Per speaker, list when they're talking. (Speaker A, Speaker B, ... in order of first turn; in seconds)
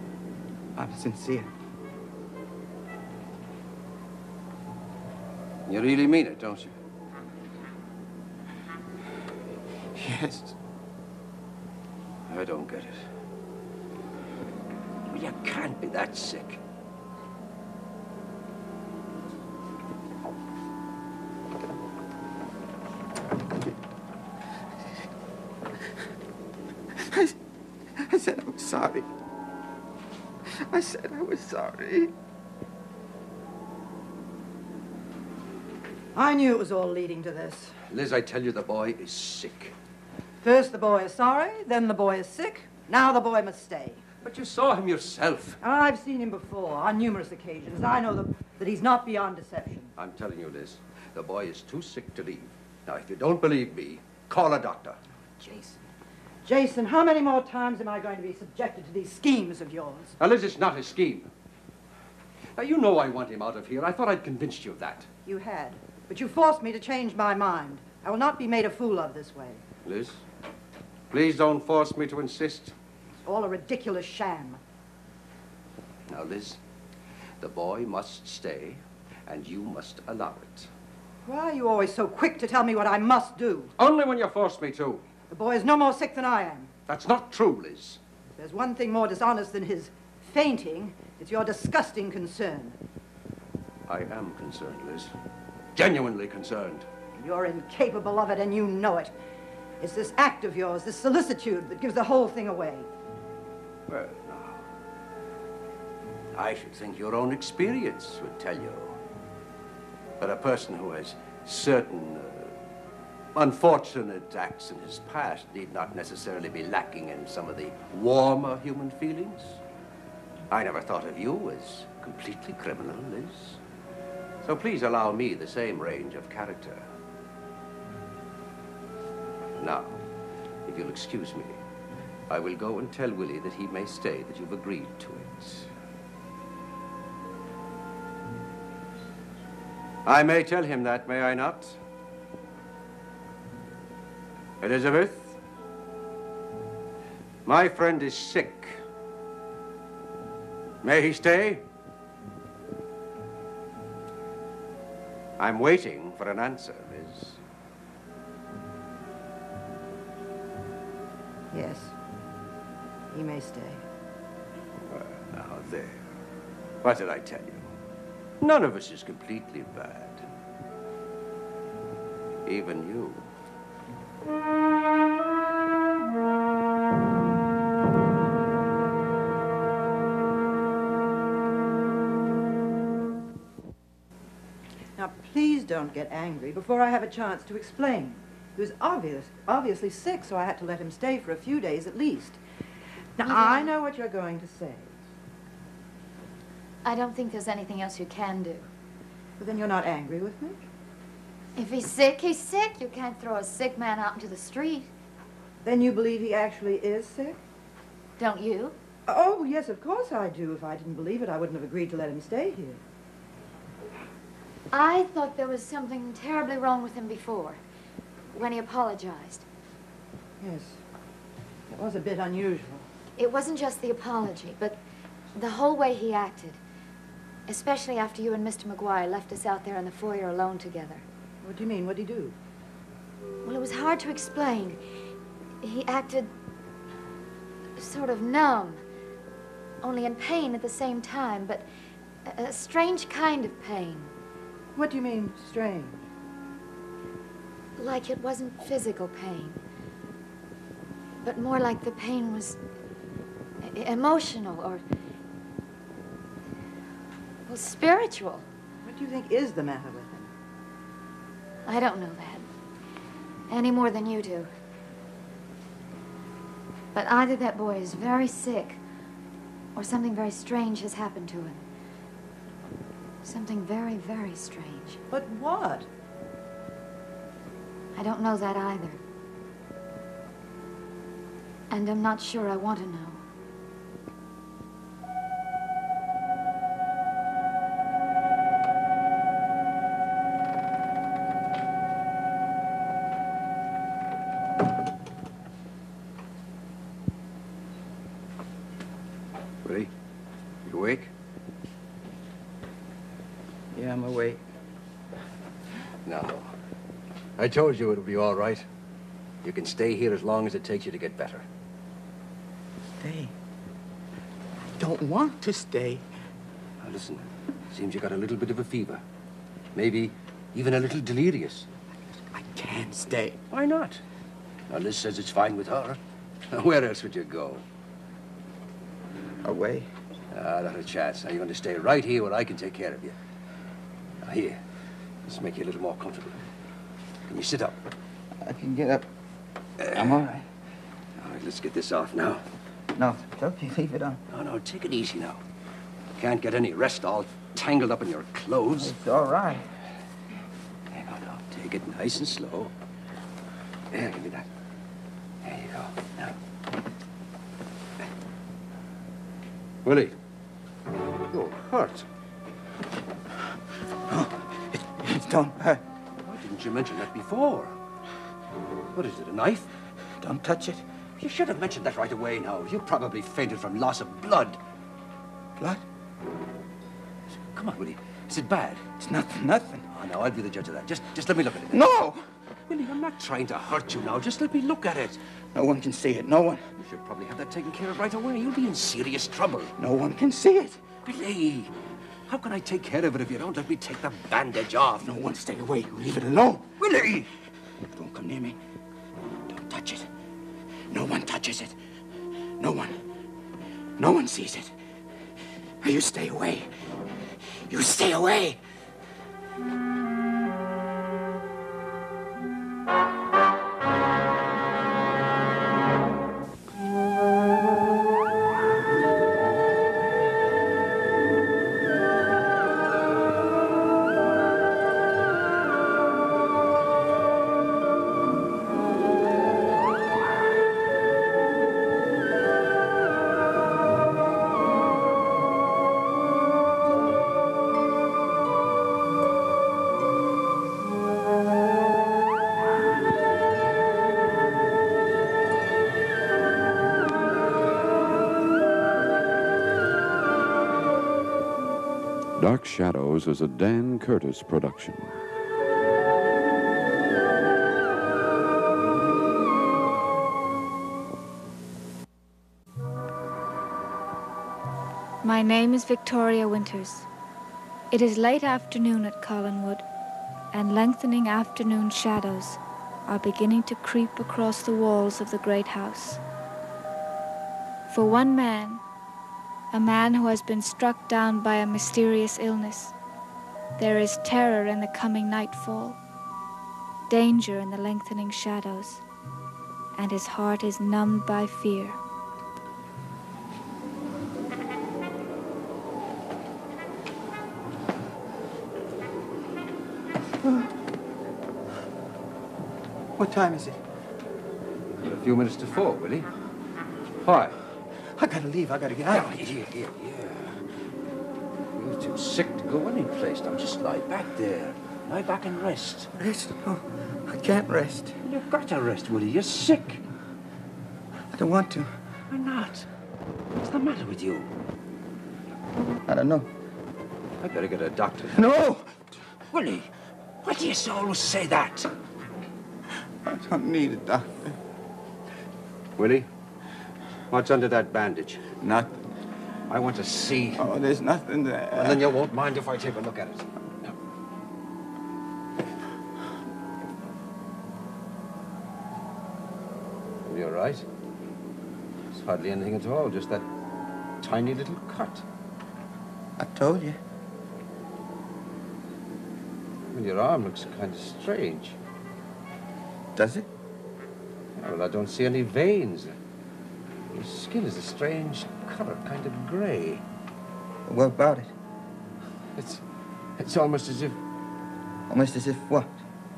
Speaker A: 0.8-1.5, 9.9-10.6, 26.9-27.4, 27.9-29.1, 30.4-32.1, 303.7-304.4, 313.0-313.3, 314.8-316.1, 322.3-323.4, 329.4-329.9, 338.4-339.1, 339.9-340.5, 342.9-344.2, 348.7-349.7, 364.1-365.8, 370.2-370.8, 375.6-375.8, 379.0-379.9, 381.7-382.3, 385.6-386.7, 389.8-390.9, 395.0-396.8, 397.8-398.6, 399.5-400.1, 400.9-401.8, 402.6-403.0, 404.0-404.7, 405.8-408.6, 503.2-503.8, 508.1-509.4, 516.2-518.2, 521.3-522.0, 526.0-526.5, 528.3-529.0, 533.2-534.6, 540.6-542.1, 556.4-557.0, 563.1-563.5, 570.9-571.5, 575.1-576.0
Speaker B: 5.7-6.8, 12.3-13.1, 15.1-16.6, 37.9-39.7, 44.2-45.6, 50.0-55.0, 60.2-61.3, 62.6-65.1, 69.8-70.2, 71.1-72.8, 76.1-76.6, 77.4-80.7, 83.8-85.0, 86.9-88.0, 93.9-95.1, 95.8-96.9, 103.9-104.7, 106.3-109.0, 110.2-112.5, 113.3-119.6, 120.5-123.6, 124.4-126.8, 129.6-130.0, 130.7-131.6, 132.3-135.7, 140.1-141.8, 144.6-145.4, 147.4-148.8, 150.8-151.7, 155.4-157.4, 164.9-166.1, 166.8-167.7, 168.4-170.3, 172.4-173.2, 299.6-299.9, 300.6-301.1, 306.1-306.5, 307.4-308.7, 309.4-311.5, 316.8-319.0, 319.8-321.7, 323.5-324.0, 324.7-326.0, 326.5-327.6, 330.3-333.2, 334.2-334.6, 335.3-336.4, 337.3-337.8, 339.8-340.2, 341.2-342.4, 344.3-345.4, 346.2-348.9, 350.9-352.7, 353.9-354.5, 355.4-356.4, 359.8-360.2, 361.3-362.1, 366.2-367.8, 368.9-369.7, 371.2-374.6, 377.3-378.9, 379.9-381.8, 382.7-385.2, 386.8-389.7, 391.1-391.7, 392.3-395.1, 396.8-397.3, 505.0-506.3, 507.2-507.6, 509.1-510.7, 511.8-516.1, 518.2-520.0, 522.3-522.9, 523.6-524.5, 527.4-528.4, 529.5-529.9, 530.4-531.9, 536.0-536.3, 537.3-538.4, 539.7-540.7, 541.8-543.9, 550.3-550.9, 552.1-553.5, 554.2-555.2, 559.9-561.8, 564.6-566.2, 567.1-570.0, 572.6-572.8, 573.4-574.2
Speaker C: 36.1-37.8, 40.4-44.0, 45.6-49.9, 55.4-55.8, 56.5-60.2, 65.3-69.6, 73.2-74.6, 81.2-83.7, 85.3-86.7, 88.4-92.8, 97.2-99.1, 99.8-102.9, 161.5-161.9, 163.1-163.8, 185.0-192.4, 193.2-194.9, 199.4-200.6, 205.6-207.4, 209.1-212.8, 220.4-220.8, 221.7-222.9, 231.4-232.4, 244.8-246.0, 258.8-260.3, 275.1-275.9
Speaker D: 193.2-193.7, 196.8-198.7, 201.6-204.9, 208.2-208.8, 214.7-217.6, 218.3-219.4, 223.2-224.8, 225.3-226.6, 227.5-231.0, 233.4-234.8, 235.6-236.3, 237.8-238.8, 239.8-241.7, 242.2-244.1, 247.8-249.6, 251.2-252.6, 253.6-254.8, 257.5-258.5, 261.7-262.5, 263.5-264.5, 266.9-268.8, 269.8-271.6, 273.2-275.0, 277.9-279.0, 281.7-283.2
Speaker E: 452.4-455.1
Speaker F: 465.2-467.1, 467.9-469.8, 470.5-476.2, 477.9-478.8, 479.7-482.9, 483.8-486.0, 487.1-489.0, 490.0-492.0